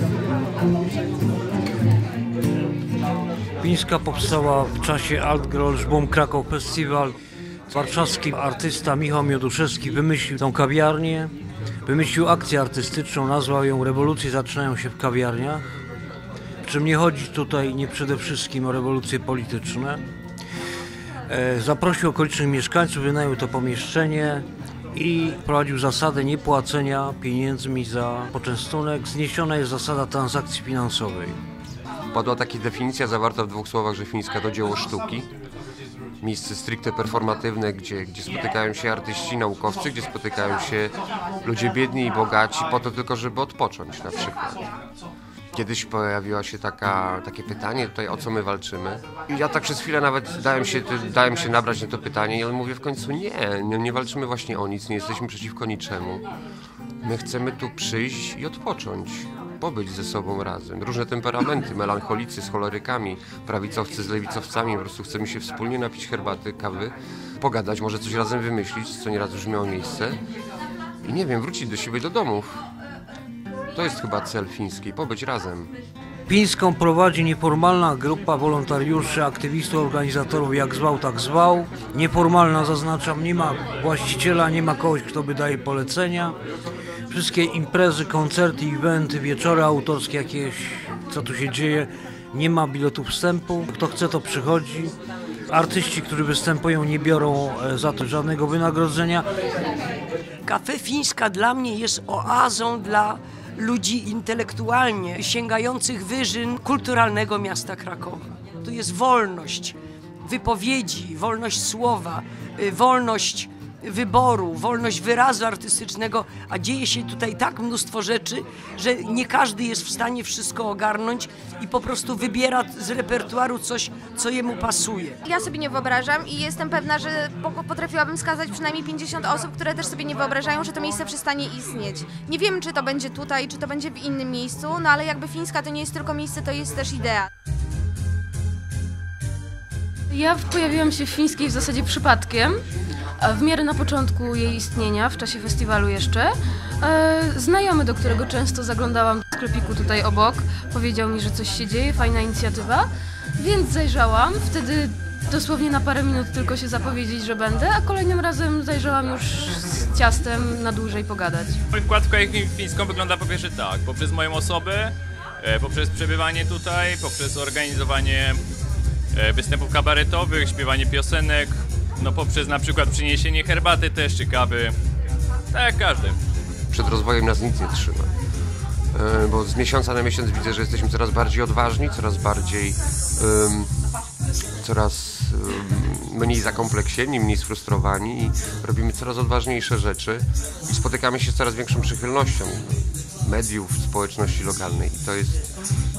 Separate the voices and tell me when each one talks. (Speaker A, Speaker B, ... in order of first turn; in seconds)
Speaker A: 3.6-7.2, 7.7-11.3, 11.8-15.6, 16.6-20.0, 21.3-31.4, 76.3-86.4, 87.1-94.9, 95.5-99.3
Speaker B: 32.1-35.3, 36.2-44.6, 45.5-56.2, 57.0-70.2, 71.0-72.6, 73.7-75.7, 176.7-178.1, 178.9-183.7, 184.6-195.4
Speaker C: 100.4-125.2
Speaker D: 125.2-137.3
Speaker E: 140.1-142.6, 143.2-161.6
Speaker F: 161.7-168.4, 169.1-174.7, 175.5-176.2